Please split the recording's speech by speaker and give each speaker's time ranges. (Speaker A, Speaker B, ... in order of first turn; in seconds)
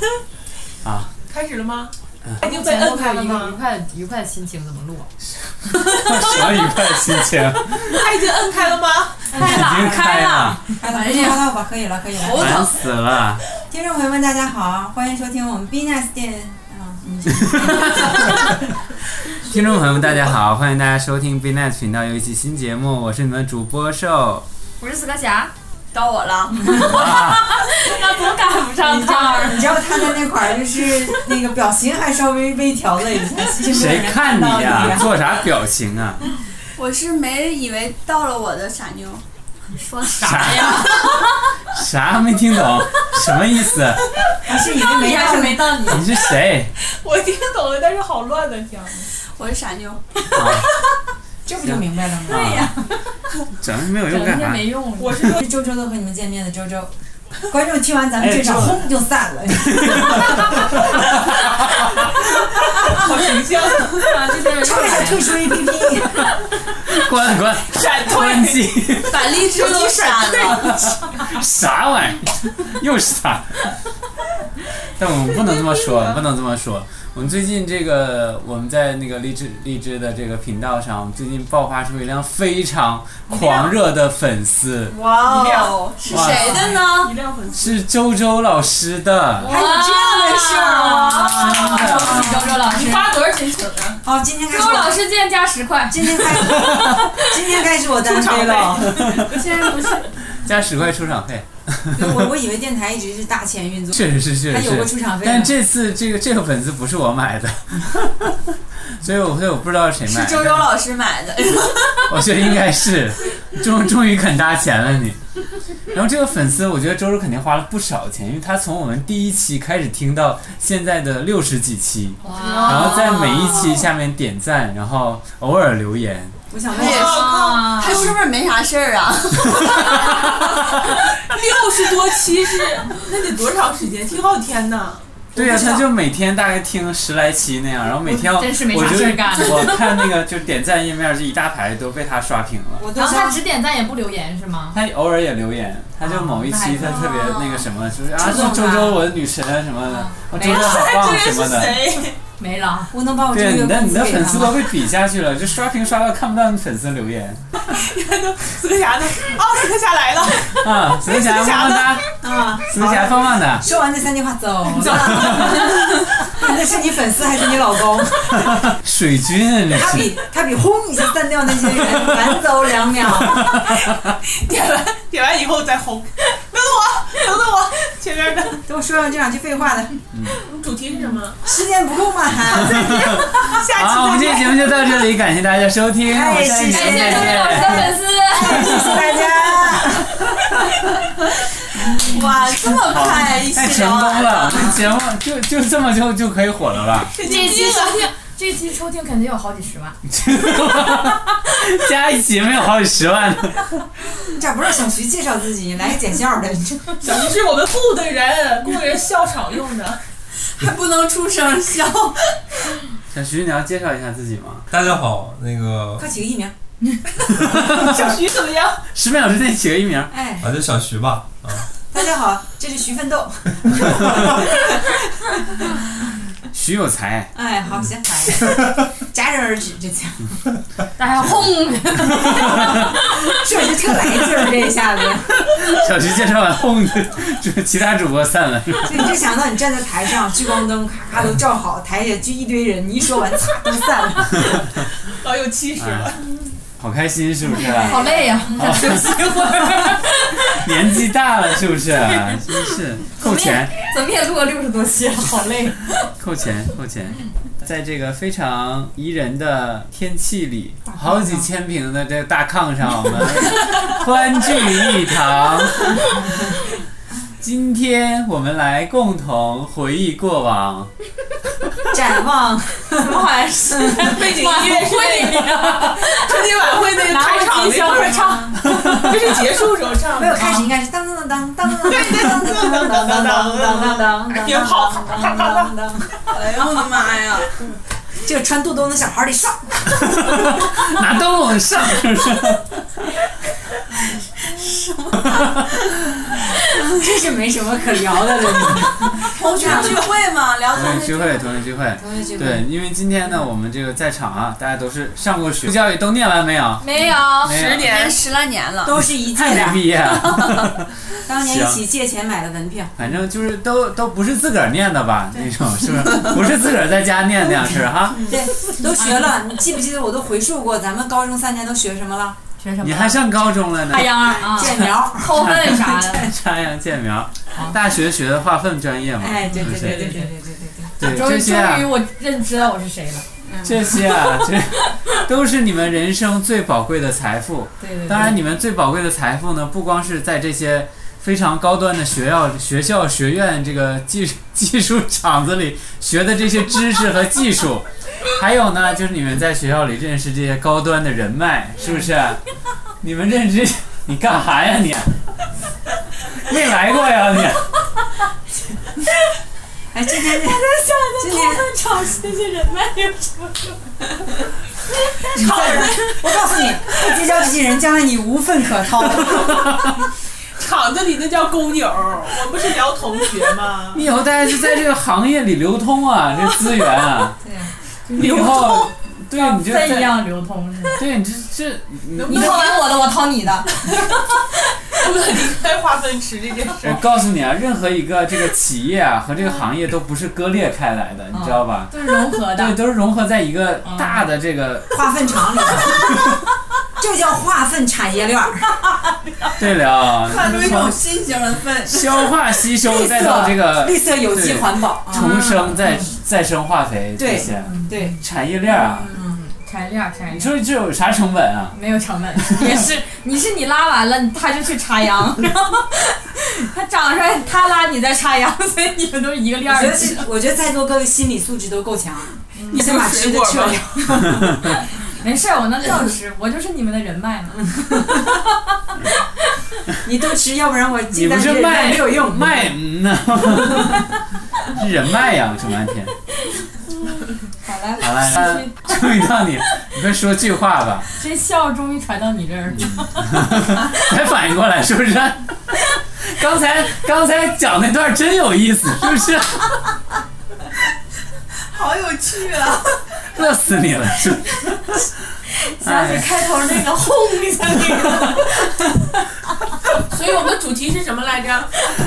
Speaker A: 0.8-1.1, 5.8-7.9, 9.3-10.6, 12.4-13.4, 17.4-18.0, 19.4-24.4, 26.8-27.5, 33.7-36.2, 40.2-41.0, 41.7-44.0, 45.9-46.7, 50.3-50.6, 51.6-52.7, 53.6-54.7, 58.2-58.8, 59.7-60.3, 66.9-69.2, 70.5-73.7, 75.0-84.9, 86.1-86.6, 87.5-89.5, 91.7-92.0, 100.4-102.3, 103.9-108.3, 109.0-110.7, 112.1-115.2, 115.9-126.3, 135.3-142.9, 144.7-151.9, 153.3-157.4, 160.6-162.0, 162.7-163.7, 168.8-170.2, 183.7-187.9, 188.4-188.9, 192.8-197.1, 200.1-203.8, 213.1-214.7, 217.4-217.9, 218.9-220.1, 226.5-227.3, 235.6-239.0, 245.8-246.1, 246.8-249.2, 250.5-253.7, 256.2-266.0, 267.4-270.9, 290.2-292.9, 295.2-295.6, 300.7-306.9, 307.4-307.9, 309.3-311.8, 313.0-318.2, 322.8-324.3, 325.3-330.2, 331.0-331.9, 333.6-352.4, 353.0-355.1, 356.4-357.7, 373.9-377.3, 378.1-380.3, 381.0-382.6, 386.8-395.0, 399.6-401.0, 401.9-409.1, 410.3-411.8, 412.4-412.8, 431.1-434.0, 434.7-436.1, 438.0-441.1, 442.7-445.5, 446.2-449.8, 453.3-455.0, 455.8-456.3
Speaker B: 1.3-3.6, 6.1-6.7, 7.8-9.3, 47.0-49.1, 55.0-55.5, 62.7-64.3, 67.7-70.8, 83.3-83.7, 85.1-87.8, 92.6-94.0, 98.0-99.8, 122.3-123.6, 126.8-128.1, 129.9-130.3, 130.8-135.1, 150.4-152.2, 157.7-162.0, 174.3-178.6, 180.3-181.4, 182.7-184.7, 197.1-198.1, 207.0-210.0, 217.4-218.8, 245.2-246.2, 273.9-280.7, 281.8-285.9, 365.3-366.2, 370.6-374.0, 382.1-382.8, 384.9-387.1, 422.7-424.2, 460.1-461.7
Speaker C: 2.4-5.1, 9.3-10.8, 24.8-25.5, 26.8-29.9, 39.7-41.3, 44.9-46.0, 52.3-52.7, 54.0-55.4, 64.0-65.4, 89.4-93.1, 94.5-97.4, 99.2-100.1, 122.2-123.1, 126.8-128.1, 138.0-139.8, 142.9-144.8, 146.0-147.2, 148.3-148.7, 150.4-150.9, 152.4-152.9, 164.9-165.7, 186.7-189.1, 197.2-200.0, 231.0-233.0, 247.8-250.6, 252.0-252.4, 253.2-255.8, 272.9-276.3, 276.9-278.6, 306.8-308.1, 318.9-319.3, 322.6-323.2, 323.9-326.3, 329.4-330.3, 331.0-333.2, 360.6-363.8, 378.1-378.8, 379.3-381.0, 382.3-383.8, 391.3-392.8, 393.8-394.2, 405.1-406.0, 407.7-408.1, 409.1-410.6, 411.7-420.3, 422.6-422.8, 425.2-428.1, 438.3-438.8, 441.2-443.8, 455.6-458.4
Speaker D: 9.4-9.9, 10.8-12.6, 13.7-18.4, 28.8-35.1, 44.4-46.0, 51.4-52.7, 55.3-56.9, 57.5-60.4, 64.6-66.3, 89.5-92.7, 94.0-95.0, 95.9-99.1, 101.9-105.5, 126.5-127.3, 135.3-135.9, 142.8-143.4, 148.2-149.0, 152.9-154.7, 162.2-168.5, 169.7-173.5, 178.7-179.9, 181.4-183.2, 186.1-190.1, 204.3-207.0, 216.0-216.5, 220.1-220.5, 221.9-224.6, 227.3-230.4, 232.3-235.5, 238.8-244.6, 247.4-248.7, 260.9-261.2, 271.9-274.1, 280.1-286.1, 288.2-290.3, 296.9-300.1, 302.0-302.6, 308.8-309.9, 311.2-312.9, 318.2-322.4, 324.2-326.1, 329.2-330.9, 333.4-333.8, 337.8-338.4, 359.9-361.7, 365.3-369.7, 377.4-377.7, 394.9-396.4, 397.0-398.7, 402.9-405.4, 407.2-408.2, 409.1-409.4, 419.6-424.8, 425.8-426.2, 427.7-428.2, 430.0-432.7, 437.6-438.3
Speaker E: 10.8-11.4, 12.2-12.8, 25.9-27.1, 36.8-39.2, 49.4-50.5, 69.0-70.8, 84.9-87.1, 110.0-112.1, 126.7-129.7, 146.9-147.7, 189.1-189.7, 191.9-194.8, 210.5-212.3, 286.3-287.5, 294.5-295.4, 299.3-301.6, 307.4-309.0, 310.1-310.6, 400.2-402.3, 451.7-453.0
Speaker F: 214.7-216.1, 220.4-221.6